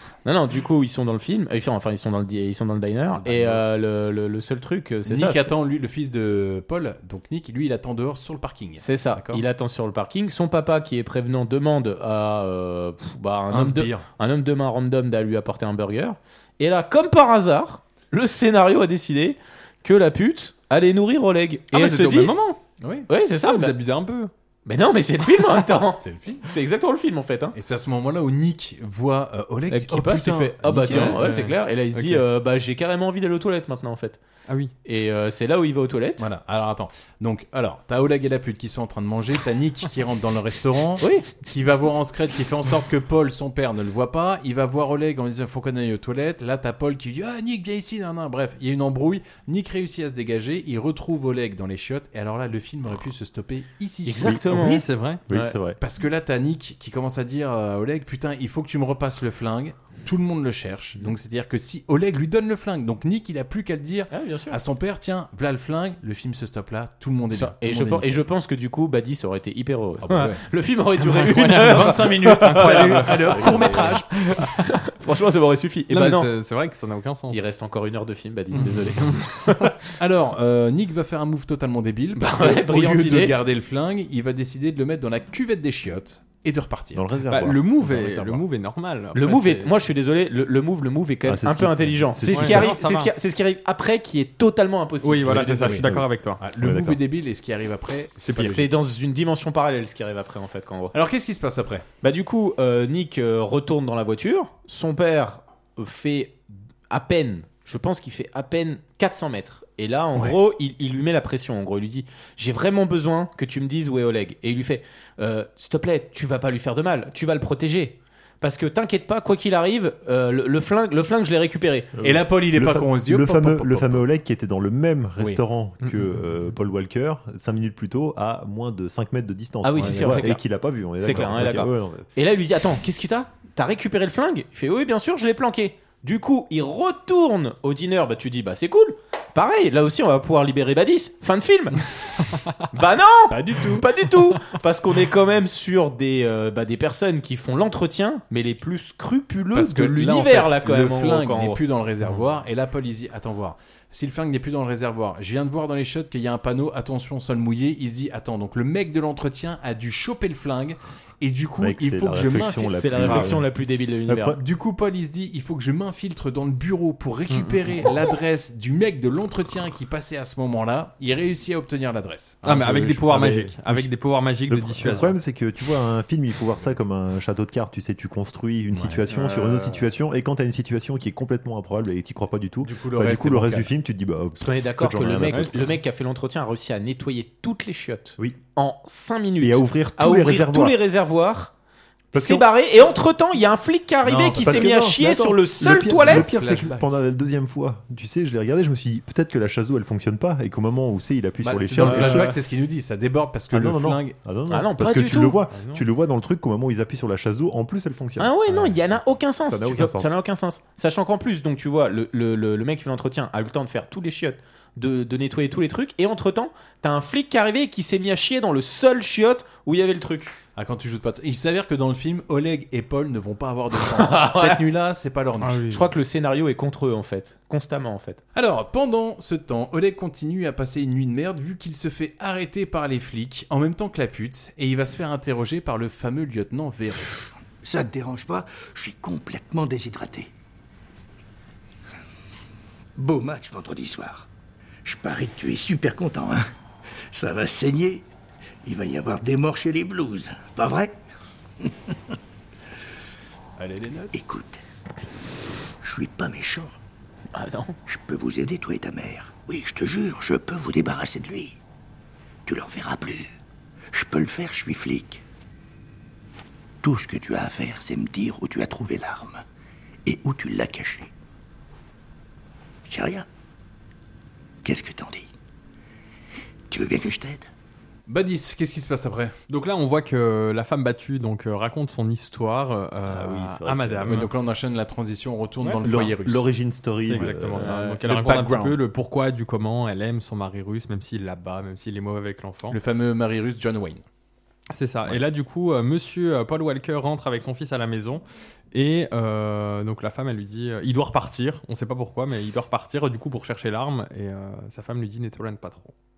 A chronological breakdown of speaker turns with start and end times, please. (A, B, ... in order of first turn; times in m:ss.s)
0:00.2-0:05.5 A
0:03.2-0:03.6 B
0:05.0-0:09.4 B
0:08.8-0:22.3 A
0:13.5-0:14.0 B
0:21.7-0:22.6 C
0:22.8-0:23.1 B
0:23.1-0:23.7 A
0:23.4-0:24.3 C
0:24.6-0:27.6 A
0:26.0-0:26.4 B
0:27.5-0:31.2 B
0:29.7-0:34.2 A
0:30.8-0:32.2 C
0:34.5-0:34.7 C
0:34.8-0:36.3 A
0:36.2-0:54.7 B
0:41.0-0:41.3 A
0:54.0-0:55.6 A
0:54.5-0:55.2 C
0:55.3-0:55.8 D
0:55.8-1:08.2 B
1:04.1-1:04.6 A
1:07.3-1:16.3 A
1:10.0-1:10.4 B
1:11.0-1:14.4 C
1:11.4-1:14.1 B
1:15.9-1:17.4 C
1:17.3-1:19.8 A
1:18.5-1:18.9 B
1:20.0-1:27.0 B
1:22.2-1:23.3 A
1:26.9-1:27.9 D
1:27.3-1:29.6 C
1:27.8-1:28.4 B
1:29.1-1:35.6 A
1:31.2-1:32.8 D
1:32.3-1:33.1 C
1:35.0-1:36.4 C
1:35.3-1:35.9 B
1:35.7-1:37.0 D
1:36.4-1:38.7 B
1:38.2-1:38.6 C
1:38.3-1:40.9 A
1:40.9-1:41.8 B
1:42.0-2:01.9 A
2:02.0-2:12.1 D
2:02.0-2:04.0 B
2:05.8-2:06.5 C
2:09.6-2:10.4 A
2:09.8-2:10.3 B
2:11.0-2:21.8 A
2:11.1-2:11.4 B
2:22.7-2:31.6 A
2:23.3-2:23.9 B
2:29.5-2:43.4 B
2:41.6-2:43.5 D
2:42.7-2:44.4 A
2:44.1-2:44.4 D
2:44.3-2:53.6 B
2:47.3-2:47.8 C
2:52.4-2:55.1 C
2:54.5-3:05.7 D
2:58.7-2:59.0 B
2:59.1-2:59.6 A
3:02.6-3:03.7 B
3:04.4-3:11.5 A
3:05.3-3:05.6 C
3:09.4-3:10.8 D
3:12.1-3:12.4 D
3:12.1-3:16.3 A
3:14.0-3:14.7 B
3:14.4-3:22.3 D
3:15.7-3:16.9 B
3:21.4-3:24.1 B
3:21.8-3:22.3 A
3:23.5-3:28.8 D
3:24.5-3:25.4 A
3:28.2-3:40.3 A
3:29.4-3:30.1 D
3:40.5-3:45.8 B
3:43.8-3:44.6 A
3:45.4-3:45.7 C
3:45.7-3:48.2 A
3:48.3-3:57.1 B
3:57.2-4:00.3 E
4:03.0-4:04.3 E
4:04.8-4:06.4 E
4:07.1-4:08.1 E
4:08.6-4:11.0 E
4:13.6-4:14.2 B
4:14.1-4:14.6 E
4:15.8-4:16.8 E
4:17.3-4:17.8 A
4:17.8-4:21.6 E
4:22.4-4:23.3 E
4:23.9-4:25.2 E
4:26.8-4:29.4 E
4:30.0-4:31.1 E
4:32.8-4:33.3 E
4:34.6-4:35.3 E
4:36.7-4:37.5 E
4:38.1-4:39.3 B
4:39.5-4:44.3 C
4:43.0-4:44.3 D
4:44.1-4:46.5 B
4:45.6-4:46.1 C
4:45.8-4:47.7 D
4:47.0-4:52.8 C
4:47.1-4:48.8 B
4:47.6-4:48.0 A
4:52.7-4:54.0 B
4:54.7-5:05.9 C